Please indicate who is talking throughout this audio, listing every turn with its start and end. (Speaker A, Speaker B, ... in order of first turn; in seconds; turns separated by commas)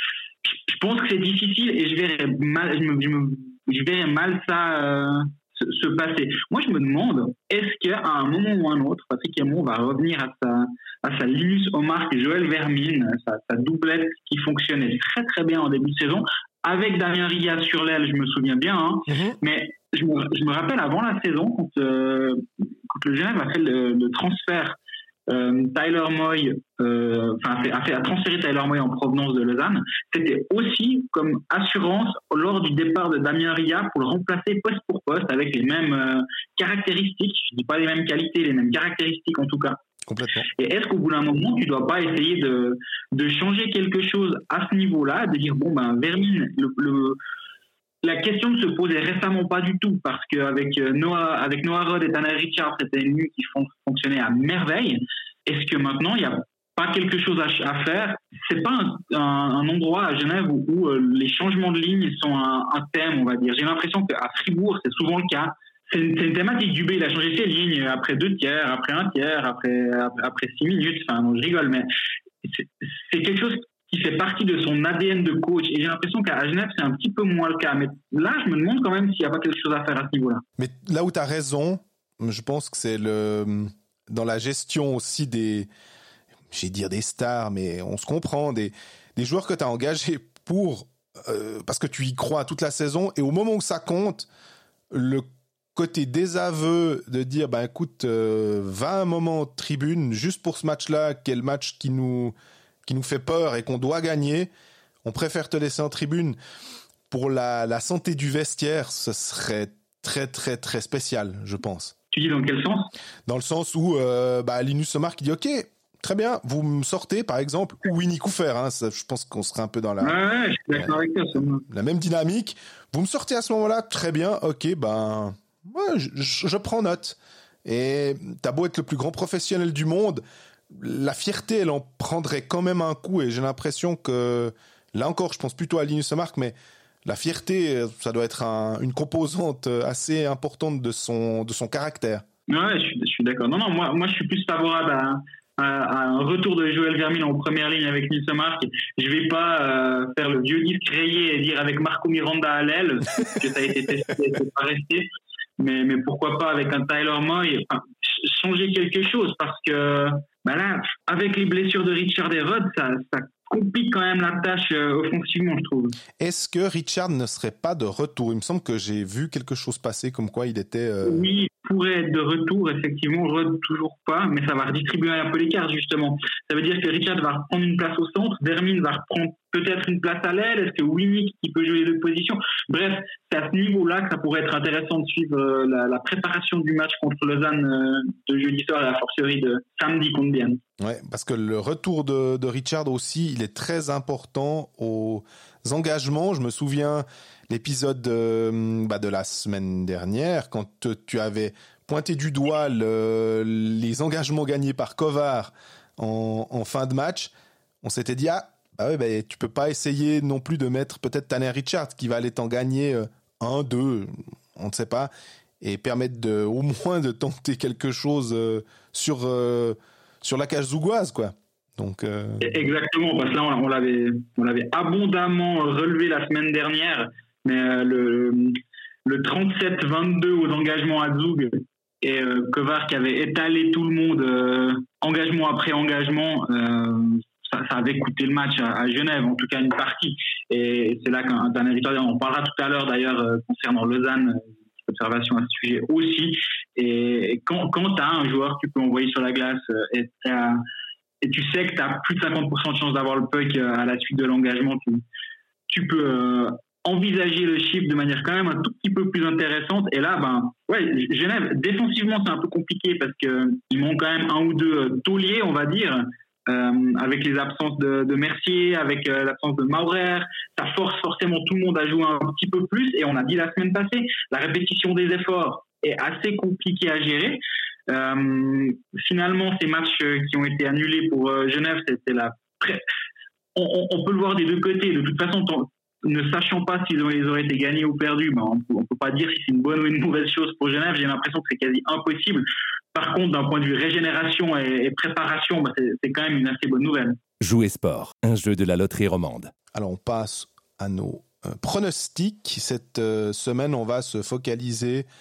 Speaker A: 0.5-39.8, Speaker B: 19.1-19.4, Speaker B: 40.1-40.5, Speaker A: 40.5-47.2, Speaker A: 48.0-71.9, Speaker A: 72.4-80.4, Speaker B: 80.6-85.7, Speaker B: 86.5-94.3, Speaker B: 94.9-102.3, Speaker B: 102.9-104.5, Speaker B: 105.0-106.4, Speaker B: 107.1-111.9, Speaker A: 112.1-112.9, Speaker B: 113.3-120.2, Speaker A: 120.0-121.6, Speaker B: 120.7-142.2, Speaker A: 142.5-155.1, Speaker A: 155.6-166.0, Speaker B: 166.2-171.3, Speaker A: 171.1-190.6, Speaker B: 190.8-207.3, Speaker B: 207.8-222.7, Speaker A: 222.4-250.6, Speaker A: 251.2-255.0, Speaker A: 255.7-282.8, Speaker A: 283.6-297.2, Speaker C: 297.4-299.5, Speaker B: 299.7-305.1